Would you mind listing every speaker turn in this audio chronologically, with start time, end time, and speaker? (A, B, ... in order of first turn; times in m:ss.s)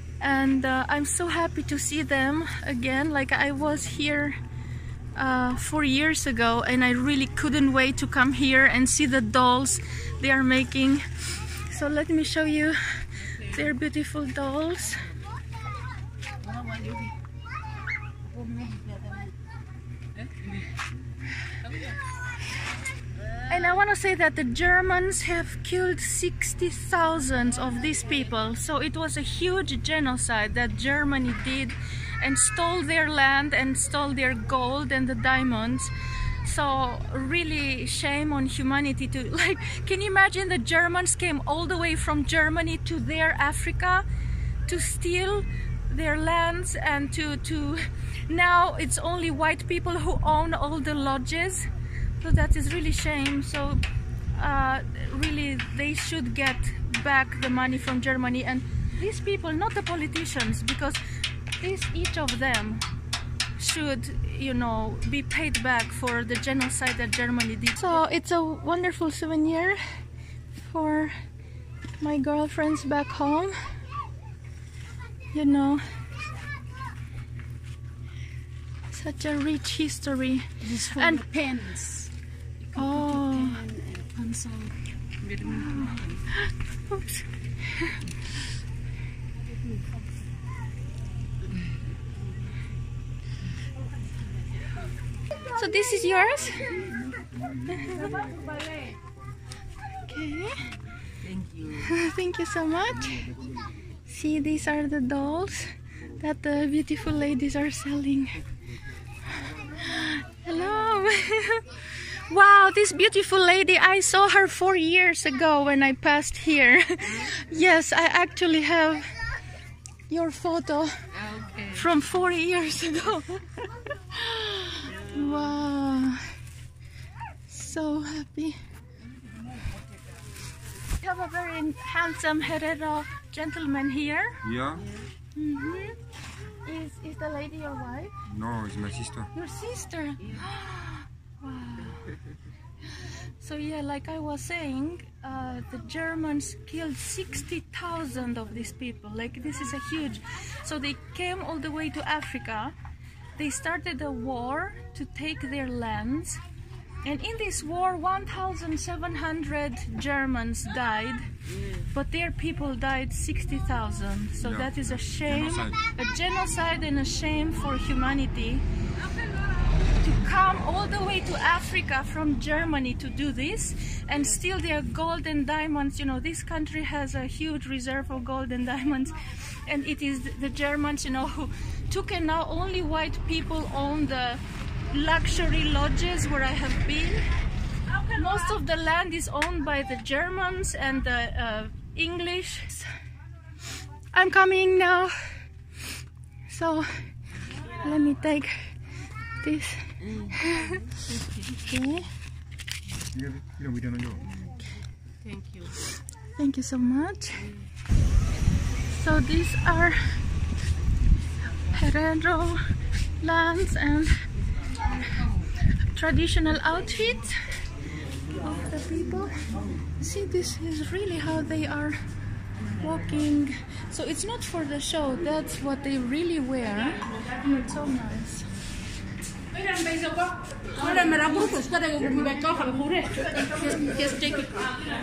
0:00.2-0:04.4 A
0:05.1-0:15.1 A
0:16.4-0:17.1 B
0:18.3-0:19.3 B
0:23.4-0:44.0 A
0:44.6-0:51.7 A
0:52.2-1:01.0 A
1:01.6-1:02.8 A
1:03.6-1:09.8 A
1:10.5-1:11.1 A
1:12.0-1:13.8 A
1:15.3-1:15.8 A
1:18.9-1:21.2 A
1:20.6-1:22.1 B
1:22.6-1:24.7 B
1:22.7-1:23.6 A
1:25.2-1:26.1 B
1:25.4-1:28.2 A
1:35.4-1:36.9 A
1:37.7-1:38.1 A
1:37.9-1:38.8 B
1:39.9-1:40.8 A
1:41.2-1:41.8 B
1:41.7-1:43.4 A
1:44.0-1:48.5 A
1:49.3-1:59.1 A
2:00.1-2:00.9 A
2:01.5-2:06.4 A
2:07.5-2:08.6 A
2:10.9-2:14.4 A
2:14.4-2:14.8 C
2:14.8-2:15.1 B
2:15.4-2:16.0 A
2:16.6-2:18.2 A
2:18.2-2:19.3 C
2:19.3-2:22.2 A
2:22.9-2:32.7 A
2:33.4-2:36.4 A
2:37.0-2:48.6 A
2:44.4-2:45.8 C
2:49.8-3:07.2 A
3:08.0-3:12.9 A
3:14.1-3:15.1 A
3:16.5-3:17.1 A
3:17.6-3:18.8 A
3:19.4-3:21.0 A
3:21.5-3:22.1 A
3:23.1-3:24.3 C
3:25.2-3:25.7 B
3:26.4-3:27.5 A
3:28.8-3:30.2 A
3:31.7-3:32.7 A
3:33.2-3:34.2 A
3:34.9-3:37.6 A
3:38.4-3:42.0 A
3:42.7-3:48.5 A
3:49.5-3:54.7 B